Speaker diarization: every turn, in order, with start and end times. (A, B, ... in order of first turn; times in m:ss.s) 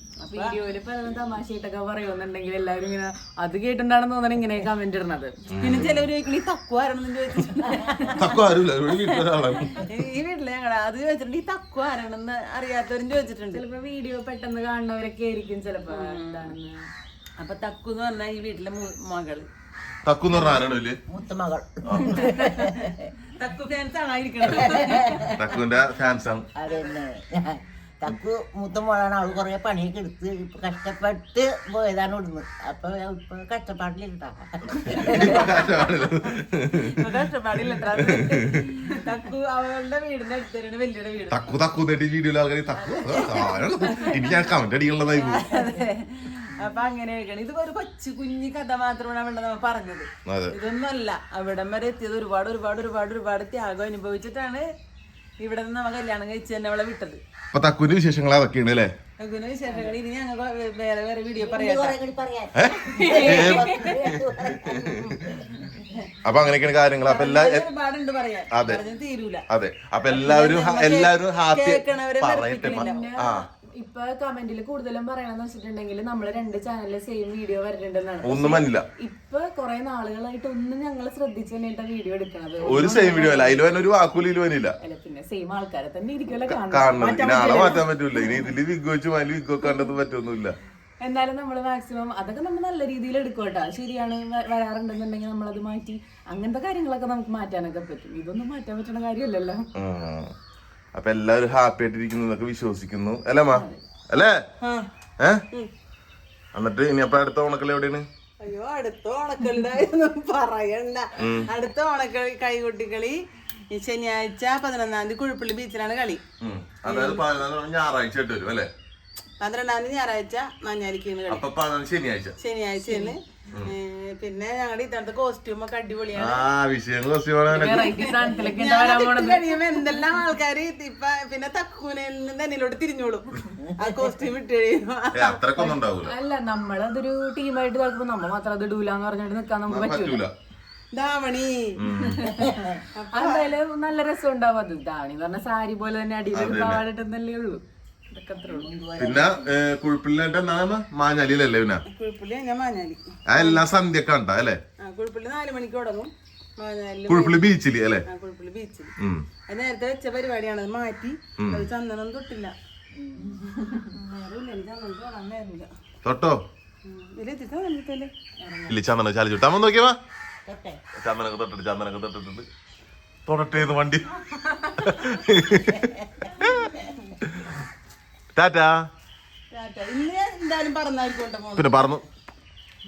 0:00.2-0:00.5 A
0:00.3-0:05.3 B
0:05.5-0:06.1 C
0:05.6-0:08.4 A
0:08.1-0:09.9 C
0:08.9-0:13.6 A
0:13.5-0:16.8 B
0:15.9-0:16.5 A
0:17.4-0:19.5 A
0:20.0-0:21.0 C
0:21.1-0:23.1 D
0:21.8-0:22.2 C
0:23.3-0:25.3 A
0:24.5-0:25.3 D
0:25.4-0:26.5 C
0:26.6-0:35.7 D
0:26.6-0:27.0 A
0:34.9-0:37.1 C
0:35.2-0:36.1 A
0:36.8-0:41.5 A
0:37.7-0:38.6 C
0:41.3-0:45.5 C
0:42.8-0:44.4 A
0:45.1-0:54.6 A
0:50.3-0:50.6 C
0:55.4-0:57.2 A
0:57.5-0:58.9 C
0:59.2-1:02.0 A
1:01.4-1:05.5 D
1:02.6-1:05.4 C
1:02.9-1:04.1 B
1:05.7-1:06.1 A
1:06.2-1:07.6 C
1:07.0-1:09.4 A
1:08.5-1:08.8 C
1:09.5-1:13.5 C
1:10.0-1:13.1 A
1:12.6-1:23.9 B
1:18.2-1:18.8 C
1:22.6-1:24.8 C
1:24.8-1:27.8 B
1:26.4-1:30.6 C
1:27.0-1:27.8 D
1:29.6-1:29.9 B
1:31.0-1:39.7 B
1:39.7-1:40.3 C
1:40.9-1:44.4 C
1:43.5-1:43.8 B
1:44.6-1:44.8 A
1:45.2-1:45.4 C
1:46.5-1:48.0 C
1:48.4-1:53.2 A
1:51.2-1:51.5 C
1:53.7-1:56.2 A
1:56.4-1:58.7 C
1:56.8-1:57.3 A
1:59.4-2:01.4 A
2:01.3-2:02.3 C
2:02.4-2:06.4 A
2:02.8-2:03.1 B
2:06.1-2:08.0 C
2:07.5-2:09.5 B
2:07.6-2:15.4 A
2:15.1-2:16.1 C
2:15.6-2:20.2 B
2:19.7-2:20.3 C
2:20.9-2:23.5 A
2:21.8-2:22.3 C
2:22.4-2:22.7 D
2:23.1-2:28.7 B
2:26.3-2:26.8 C
2:28.4-2:29.4 D
2:29.0-2:31.8 C
2:31.9-2:33.6 A
2:33.3-2:34.6 C
2:34.8-2:37.4 A
2:37.1-2:38.0 C
2:38.1-2:38.9 A
2:39.0-2:39.2 C
2:39.5-2:42.5 A
2:41.4-2:41.7 C
2:43.4-2:43.8 B
2:43.8-2:45.7 A
2:46.0-2:46.4 C
2:46.8-2:48.1 A
2:48.7-2:50.0 C
2:50.4-2:50.8 D
2:51.0-2:52.4 C
2:53.2-2:54.1 C
2:54.6-2:56.7 C
2:55.7-2:56.3 D
2:57.2-2:57.6 C
2:58.3-2:58.8 C
2:59.5-3:01.8 A
3:01.6-3:02.0 C